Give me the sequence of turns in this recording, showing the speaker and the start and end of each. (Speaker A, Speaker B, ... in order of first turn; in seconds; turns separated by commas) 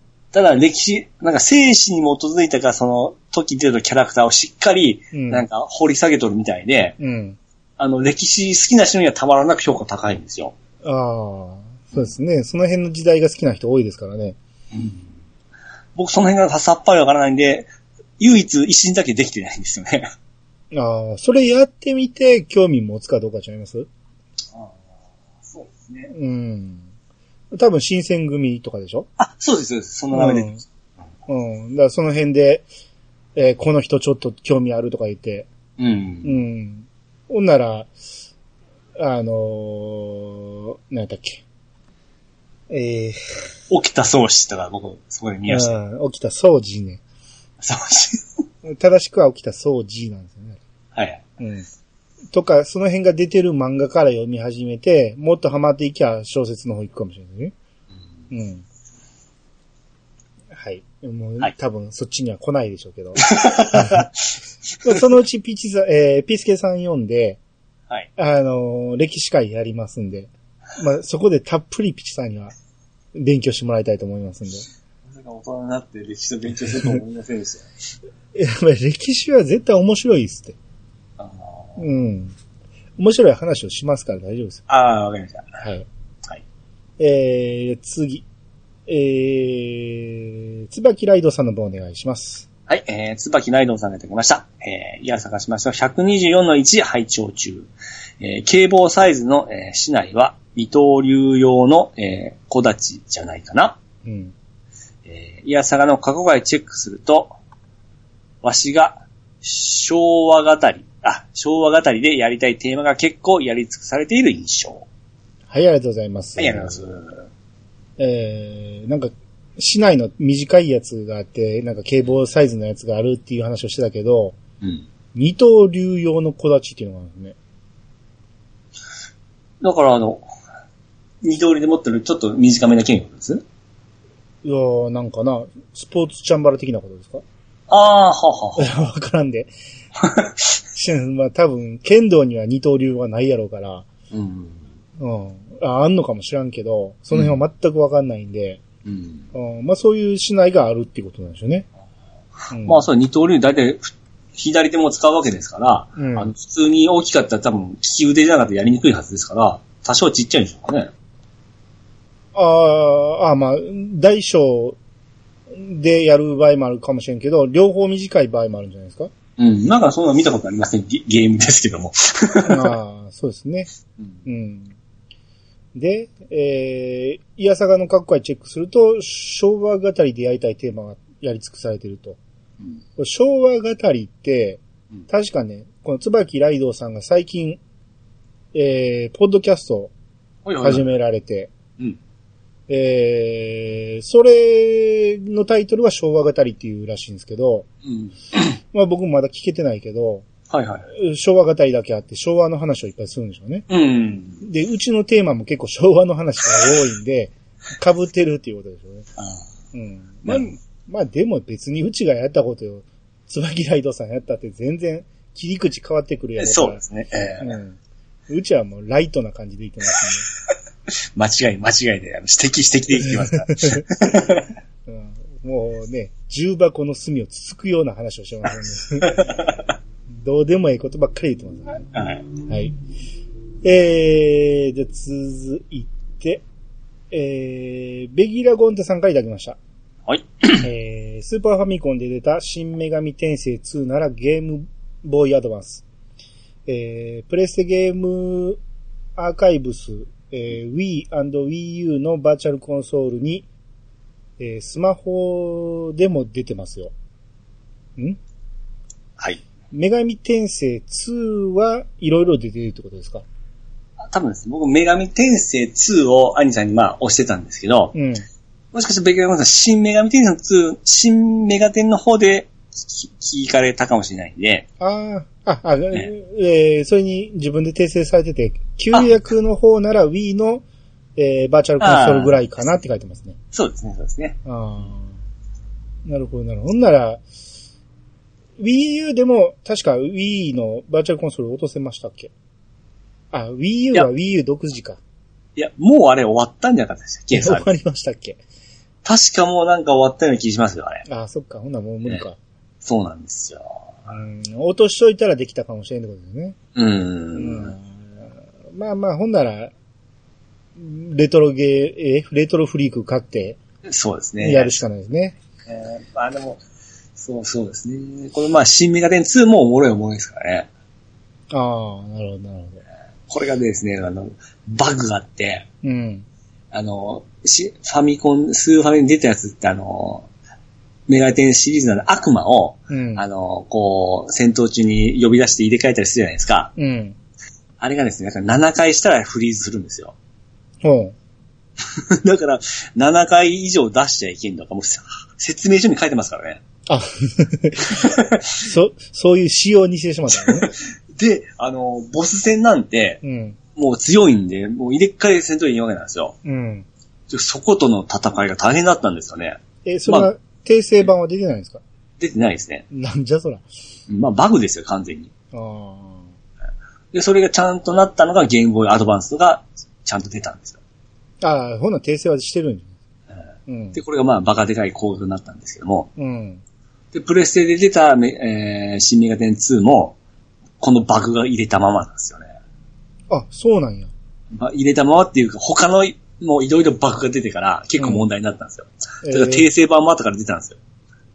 Speaker A: 0.3-7.0, Speaker B: 5.1-5.4, Speaker B: 7.0-7.4, Speaker A: 7.8-10.5, Speaker B: 10.8-14.4, Speaker A: 14.7-15.1, Speaker A: 15.9-17.7, Speaker A: 18.2-20.1, Speaker B: 20.7-23.9, Speaker A: 24.5-24.9, Speaker A: 25.4-26.1, Speaker B: 26.1-26.9, Speaker B: 27.5-29.1, Speaker A: 29.2-30.5, Speaker B: 30.1-30.6, Speaker B: 31.3-32.6, Speaker B: 33.4-35.5, Speaker A: 35.8-36.4, Speaker B: 36.2-37.9, Speaker B: 39.0-41.4, Speaker B: 42.7-43.2, Speaker A: 43.7-45.8, Speaker B: 45.5-47.0, Speaker A: 47.6-48.2, Speaker B: 48.6-50.6, Speaker A: 50.9-51.2, Speaker B: 51.4-51.7, Speaker B: 52.3-57.5, Speaker B: 58.3-58.6, Speaker B: 60.5-64.1, Speaker A: 63.3-64.2, Speaker B: 64.8-67.4, Speaker B: 68.2-72.5, Speaker B: 73.1-74.7, Speaker A: 75.0-77.7, Speaker B: 78.3-80.6, Speaker A: 81.2-81.8, Speaker B: 81.8-82.3, Speaker B: 83.0-84.6, Speaker A: 84.7-85.5, Speaker B: 85.6-85.9, Speaker B: 87.0-88.2, Speaker B: 88.9-92.5, Speaker A: 92.7-97.7, Speaker A: 98.2-103.8, Speaker B: 104.0-104.3, Speaker A: 105.0-107.3, Speaker A: 108.4-114.8, Speaker B: 115.5-116.8, Speaker A: 116.4-117.2, Speaker B: 118.0-124.4, Speaker B: 125.1-127.3, Speaker A: 129.6-130.3, Speaker A: 131.2-133.4, Speaker B: 134.4-137.2, Speaker A: 137.7-138.8, Speaker B: 138.6-139.5, Speaker A: 140.0-140.6, Speaker B: 140.7-143.8, Speaker A: 144.1-144.6, Speaker B: 145.0-148.6, Speaker A: 147.1-147.4, Speaker A: 148.8-149.3, Speaker B: 149.3-151.7, Speaker B: 152.5-152.8, Speaker A: 152.6-160.9, Speaker B: 155.9-156.3, Speaker B: 162.3-164.8, Speaker B: 165.5-169.1, Speaker A: 169.4-172.8, Speaker B: 172.4-173.7, Speaker B: 174.2-174.8, Speaker B: 175.7-182.2, Speaker B: 183.0-187.6, Speaker B: 188.5-189.9, Speaker A: 190.4-190.8, Speaker B: 190.6-191.5, Speaker B: 192.7-197.7, Speaker A: 197.8-198.5, Speaker B: 198.7-200.2, Speaker A: 200.5-200.9, Speaker B: 200.9-203.7, Speaker A: 203.7-204.4, Speaker B: 204.4-209.1, Speaker A: 209.2-209.4, Speaker B: 209.7-216.8, Speaker A: 216.4-217.6, Speaker B: 217.4-217.8, Speaker B: 218.3-220.3, Speaker A: 221.2-224.5, Speaker B: 223.0-223.8, Speaker B: 224.8-229.3, Speaker A: 229.0-229.7, Speaker B: 230.2-231.9, Speaker A: 231.9-232.3, Speaker B: 232.5-232.8, Speaker B: 233.6-236.4, Speaker B: 237.1-239.6, Speaker A: 240.1-240.7, Speaker B: 240.6-245.8, Speaker B: 246.7-248.6, Speaker B: 249.2-253.5, Speaker B: 254.4-256.9, Speaker B: 259.7-263.2, Speaker A: 264.0-267.9, Speaker B: 267.9-268.2, Speaker A: 268.7-274.6, Speaker B: 274.8-280.6, Speaker B: 281.2-283.4, Speaker A: 281.8-282.4, Speaker A: 283.5-284.4, Speaker B: 284.4-285.1, Speaker B: 286.0-287.2, Speaker B: 288.6-292.3, Speaker B: 293.3-295.0, Speaker A: 295.6-297.7, Speaker B: 297.3-298.4, Speaker A: 299.0-301.0, Speaker B: 301.1-302.4, Speaker A: 302.8-303.8, Speaker B: 304.1-306.6, Speaker A: 306.7-307.7, Speaker B: 307.3-309.7, Speaker B: 310.8-313.6, Speaker A: 313.8-314.7, Speaker B: 314.4-315.4, Speaker A: 315.6-316.6, Speaker A: 317.2-320.7, Speaker B: 321.5-322.8, Speaker A: 323.3-325.6, Speaker B: 325.8-326.2, Speaker A: 326.7-330.3, Speaker A: 331.1-336.7, Speaker B: 332.9-333.2, Speaker B: 336.8-337.1, Speaker A: 337.8-340.1, Speaker B: 340.8-341.1, Speaker A: 341.8-346.6, Speaker B: 346.9-350.7, Speaker A: 347.9-348.6, Speaker A: 350.4-353.2, Speaker B: 353.2-353.6, Speaker A: 353.8-356.4, Speaker B: 356.4-356.9, Speaker A: 357.3-360.3, Speaker B: 359.8-361.8, Speaker A: 362.2-362.8, Speaker B: 362.9-363.6, Speaker A: 364.1-365.3, Speaker B: 365.5-366.3, Speaker A: 367.1-370.8, Speaker B: 371.4-372.9, Speaker B: 373.7-374.0, Speaker A: 373.9-376.1, Speaker B: 376.2-376.6, Speaker A: 377.1-380.2, Speaker A: 380.8-382.5, Speaker B: 383.3-384.1, Speaker A: 384.5-390.8, Speaker B: 388.0-388.2, Speaker B: 389.2-389.7